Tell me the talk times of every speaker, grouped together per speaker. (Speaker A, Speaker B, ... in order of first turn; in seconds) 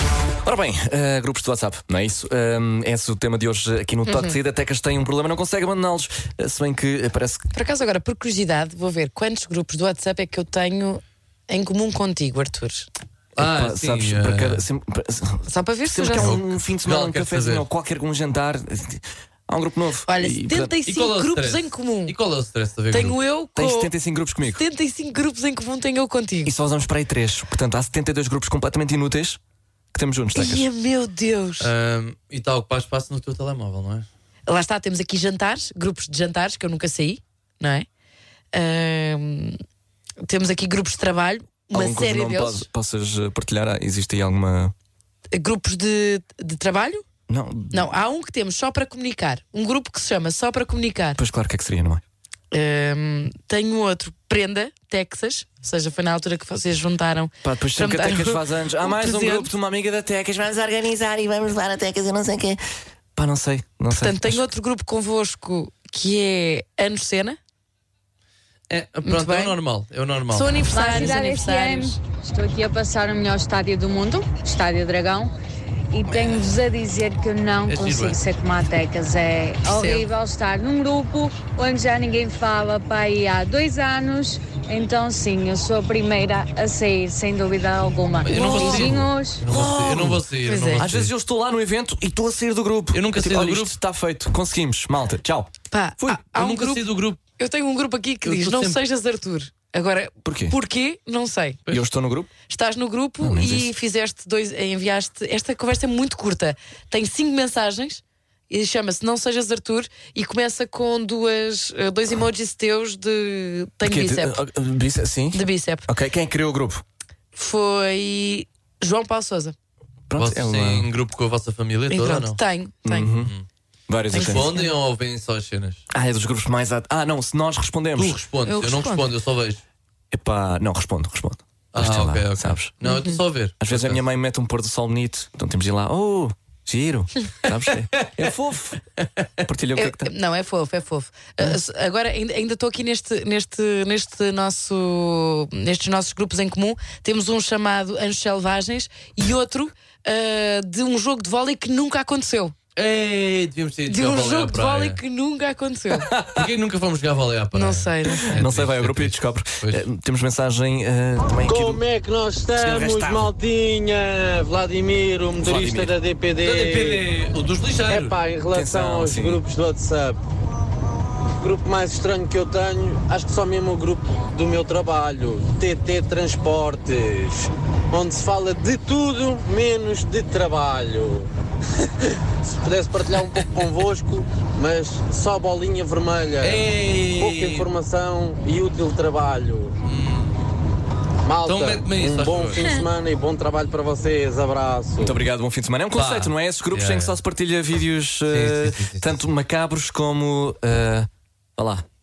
Speaker A: 0.4-7.5, 13.4-20.7, 23.6-24.6, 26.4-29.4, 29.9-30.7, 41.7-44.7, 47.3-47.9, 51.2-52.0, 57.4-62.6, 63.1-64.5, 89.5-90.2, 90.8-96.2, 100.2-100.6, 101.7-102.3, 103.2-103.7, 113.8-116.8, 120.1-120.9, 122.8-123.3, 123.9-124.6, 125.9-128.2, 130.1-132.7, 133.6-138.8, 139.4-140.1, 156.1-156.4, 158.3-161.8, 162.6-163.3, 165.4-165.9, 168.5-169.4, 195.0-201.8
Speaker B: 4.1-4.4, 7.5-12.9, 15.5-16.4, 20.1-22.1, 22.9-23.9, 24.4-26.5, 30.4-31.7, 34.5-37.9, 38.5-39.6, 40.2-42.7, 45.3-47.0, 47.7-51.2, 52.5-59.5, 63.9-67.4, 69.0-69.6, 70.3-72.0, 79.7-80.1, 88.3-88.9, 90.5-90.9, 95.7-101.6, 102.5-114.4, 115.3-115.9, 117.3-119.5, 121.9-123.1, 124.1-124.7, 128.4-129.1, 132.8-133.2, 139.8-152.6, 153.9-156.1, 157.5-158.4
Speaker C: 13.4-14.7, 16.2-17.7, 20.9-23.2, 31.6-34.1, 68.7-71.0, 77.7-78.2, 88.2-91.1, 92.9-93.8, 96.3-97.2, 98.2-98.8, 120.2-122.4, 123.1-123.5, 124.1-125.8, 128.0-129.6, 131.7-134.0, 152.8-155.0, 156.3-159.8, 166.4-168.2, 186.4-187.7, 189.8-190.4, 191.4-192.7, 195.9-197.2, 198.3-199.2
Speaker D: 70.7-75.3, 75.9-89.4
Speaker E: 161.4-167.1, 167.9-170.2, 171.4-181.3, 182.4-189.7, 191.3-195.2